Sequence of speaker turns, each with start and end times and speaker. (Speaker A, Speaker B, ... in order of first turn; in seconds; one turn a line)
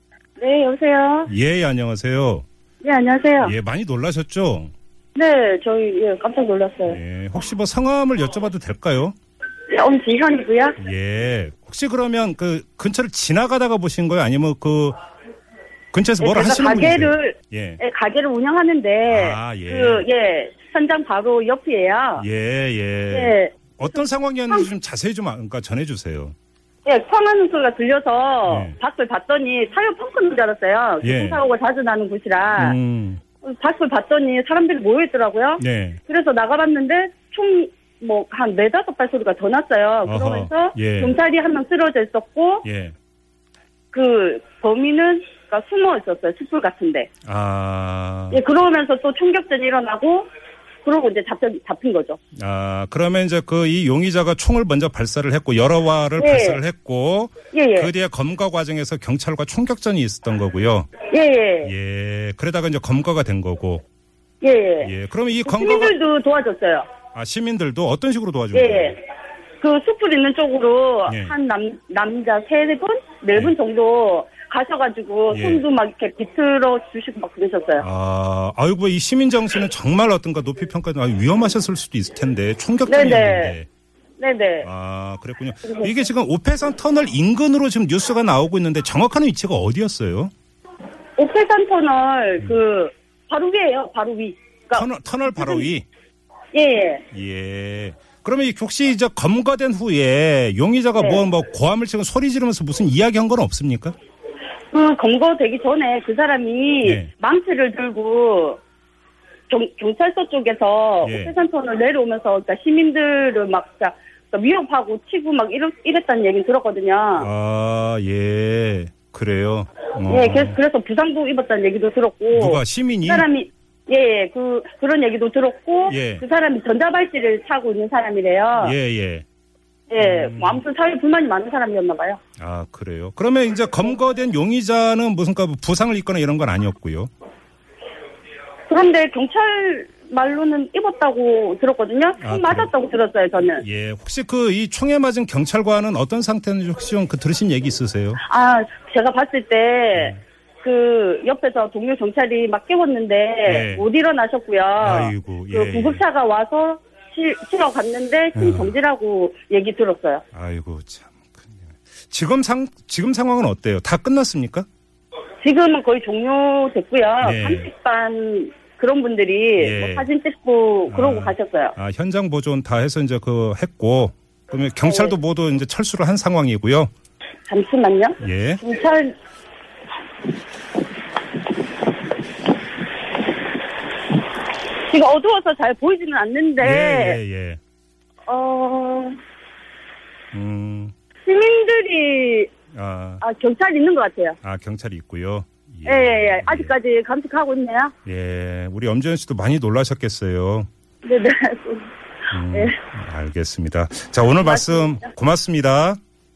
Speaker A: 0.4-1.3
Speaker B: 1.3-2.5
Speaker A: 2.8-3.5
Speaker B: 3.4-4.7
Speaker A: 5.2-7.0
Speaker B: 6.9-9.2
Speaker A: 9.7-10.8
Speaker B: 10.8-15.0
Speaker B: 15.9-17.8
Speaker A: 16.2-22.3
Speaker B: 19.1-20.1
Speaker B: 22.2-26.4
Speaker A: 23.1-23.6
Speaker A: 26.9-32.8
Speaker B: 28.5-28.8
Speaker B: 31.0-31.4
Speaker B: 32.6-33.2
Speaker A: 33.4-42.6
Speaker B: 35.6-36.0
Speaker B: 40.1-41.2
Speaker B: 42.6-43.0
Speaker A: 43.9-47.1
Speaker B: 47.2-48.5
Speaker A: 48.3-50.3
Speaker A: 50.8-52.2
Speaker B: 52.4-60.9
Speaker A: 56.2-56.6
Speaker A: 57.5-57.9
Speaker A: 61.1-61.7
Speaker B: 61.6-63.8
Speaker A: 64.4-64.9
Speaker B: 64.8-66.0
Speaker A: 65.5-66.9
Speaker B: 67.1-69.0
Speaker A: 68.5-69.0
Speaker A: 69.6-77.9
Speaker B: 71.1-71.3
Speaker B: 75.3-75.7
Speaker B: 77.8-83.7
Speaker A: 82.9-83.6
Speaker A: 84.2-84.7
Speaker B: 84.6-90.3
Speaker A: 91.2-95.7
Speaker B: 94.7-95.9
Speaker A: 96.5-97.0
Speaker B: 97.1-104.0
Speaker A: 101.0-101.2
Speaker A: 104.7-108.6
Speaker B: 106.8-107.1
Speaker A: 109.5-117.3
Speaker B: 111.0-111.3
Speaker B: 117.2-120.6
Speaker A: 120.0-128.8
Speaker B: 122.3-123.3
Speaker B: 125.9-126.2
Speaker B: 128.6-129.2
Speaker A: 129.9-132.2
Speaker B: 130.0-130.6
Speaker B: 132.4-137.1
Speaker A: 138.7-143.7
Speaker B: 142.2-142.7
Speaker B: 143.6-148.2
Speaker A: 148.3-160.2
Speaker B: 149.9-150.2
Speaker B: 153.4-153.9
Speaker B: 154.8-156.0
Speaker B: 158.3-158.7
Speaker B: 160.3-164.7
Speaker A: 165.4-171.8
Speaker B: 167.2-167.7
Speaker B: 169.6-170.1
Speaker B: 170.9-176.9
Speaker A: 174.8-175.2
Speaker A: 177.5-179.2
Speaker B: 178.2-178.6
Speaker A: 184.9-187.2
Speaker B: 186.6-187.6
Speaker A: 188.3-189.2
Speaker B: 190.3-190.9
Speaker A: 191.2-192.5
Speaker B: 192.7-193.2
Speaker A: 193.2-194.4
Speaker B: 194.4-196.7
Speaker A: 195.8-197.9
Speaker B: 198.1-200.7
Speaker A: 201.1-201.9
Speaker B: 202.3-206.0
Speaker A: 202.5-202.8
Speaker A: 204.4-205.1